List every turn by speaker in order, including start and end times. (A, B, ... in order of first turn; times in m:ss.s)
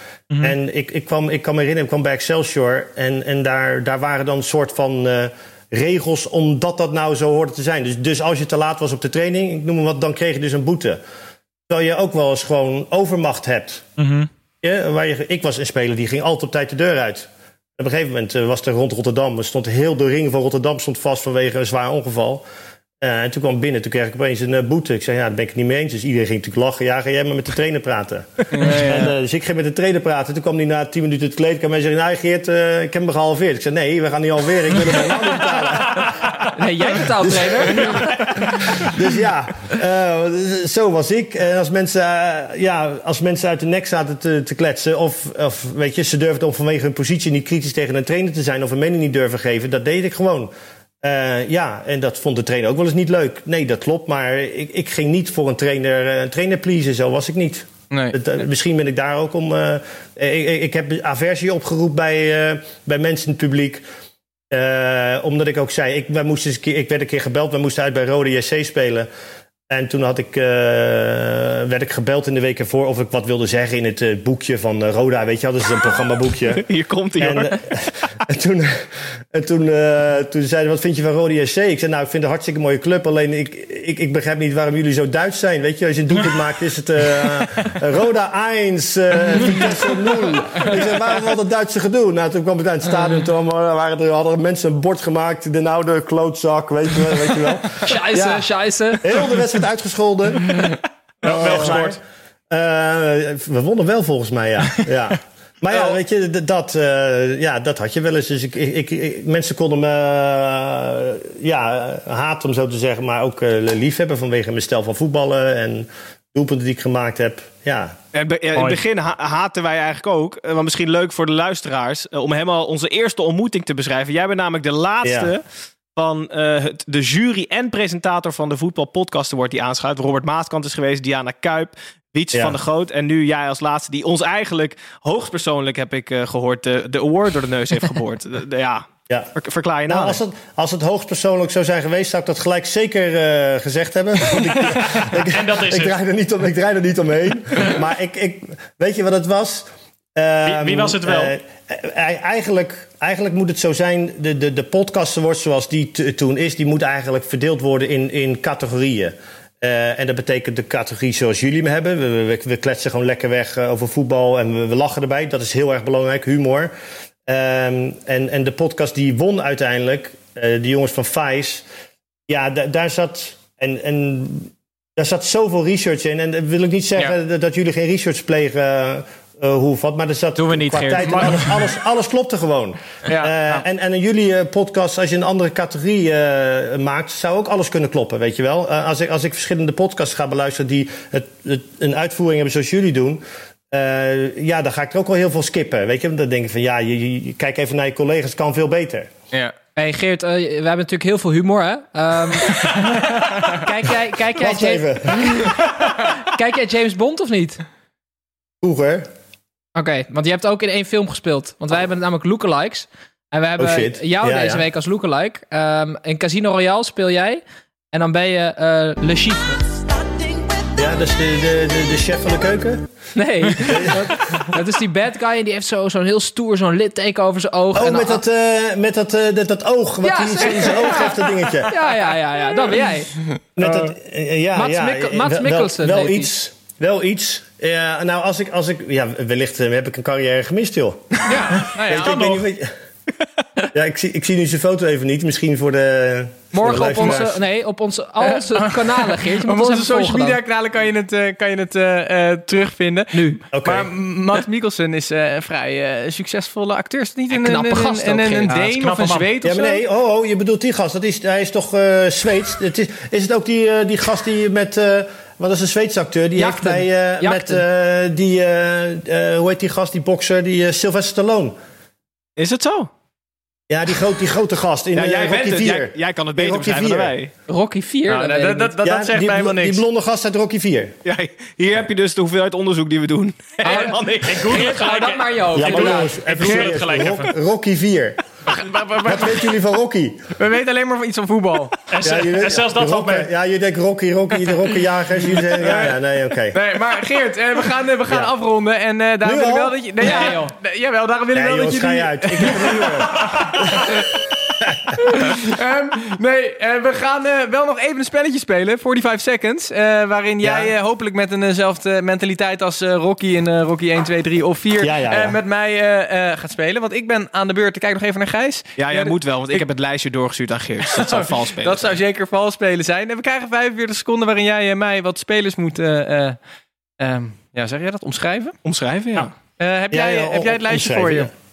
0:00.4-0:11.0 A
0:11.7-0:13.8 A
0:14.0-0:14.3 B
0:14.6-0:22.4 A
0:23.0-0:36.1 A
0:28.5-0:29.1 C
0:36.0-0:36.5 B
0:36.6-0:38.0 D
0:37.2-1:03.8 A
0:57.9-0:58.2 C
1:04.5-1:09.1 A
1:09.7-1:16.6 A
1:16.5-1:17.6 E
1:17.2-1:38.5 A
1:37.8-1:39.1 D
1:39.0-1:40.5 A
1:41.2-1:42.0 B
1:41.3-1:41.7 C
1:41.3-1:42.0 A
1:42.5-1:58.0 A
1:58.1-2:05.4 E
1:58.5-1:58.8 B
2:05.0-2:05.3 A
2:06.0-2:20.2 E
2:19.9-2:46.7 A
2:25.3-2:26.0 B
2:30.5-2:31.4 B
2:47.3-2:51.6 A
2:52.3-3:19.1 A
3:00.4-3:01.5 B
3:00.7-3:01.2 D
3:00.9-3:01.5 C
3:03.1-3:03.3 C
3:19.8-3:22.8 D
3:22.6-3:23.6 C
3:23.5-3:25.5 D
3:24.4-3:25.3 A
3:26.2-3:27.6 D
3:28.6-3:29.1 A
3:29.8-3:37.4 D
3:33.6-3:34.6 A
3:37.9-3:39.6 D
3:40.8-3:42.9 A
3:43.2-3:48.2 D
3:43.6-3:44.0 A
3:47.8-3:51.7 A
3:50.0-3:53.7 D
3:50.4-3:51.4 C
3:53.3-3:53.8 C
3:53.6-4:01.2 A
3:54.5-3:56.3 D
4:01.2-4:02.4 C
4:01.8-4:02.7 A
4:01.9-4:02.4 B
4:03.7-4:07.4 A
4:06.5-4:10.4 D
4:08.2-4:19.8 C
4:13.1-4:13.4 D
4:13.5-4:13.9 A
4:17.3-4:18.6 D
4:18.5-4:19.3 B
4:19.4-4:31.6 A
4:26.4-4:27.6 D
4:32.4-4:32.9 E
4:33.7-4:37.2 A
4:35.0-4:37.3 E
4:37.5-4:38.8 D
4:38.1-4:39.8 C
4:38.8-4:40.9 A
4:41.0-4:44.6 E
4:43.6-4:46.2 D
4:44.2-4:47.3 B
4:45.6-4:48.2 A
4:46.4-4:46.7 C
4:48.5-4:49.5 C
4:49.0-4:50.2 A
4:50.4-4:51.8 C
4:51.9-4:53.3 B
4:52.0-4:56.6 A
4:55.6-4:56.0 C
4:56.5-5:04.0 C
4:58.1-4:58.3 A
4:59.2-5:00.1 A
5:00.0-5:00.5 D
5:01.3-5:04.0 A
5:03.2-5:03.4 B
5:04.6-5:05.0 A
5:05.0-5:19.7 C
5:10.4-5:10.7 A
5:14.8-5:15.4 A
5:18.8-5:22.0 E
5:20.8-5:26.4 C
5:27.0-5:28.6 C
5:28.6-5:29.3 E
5:29.6-5:31.3 C
5:29.9-5:31.3 A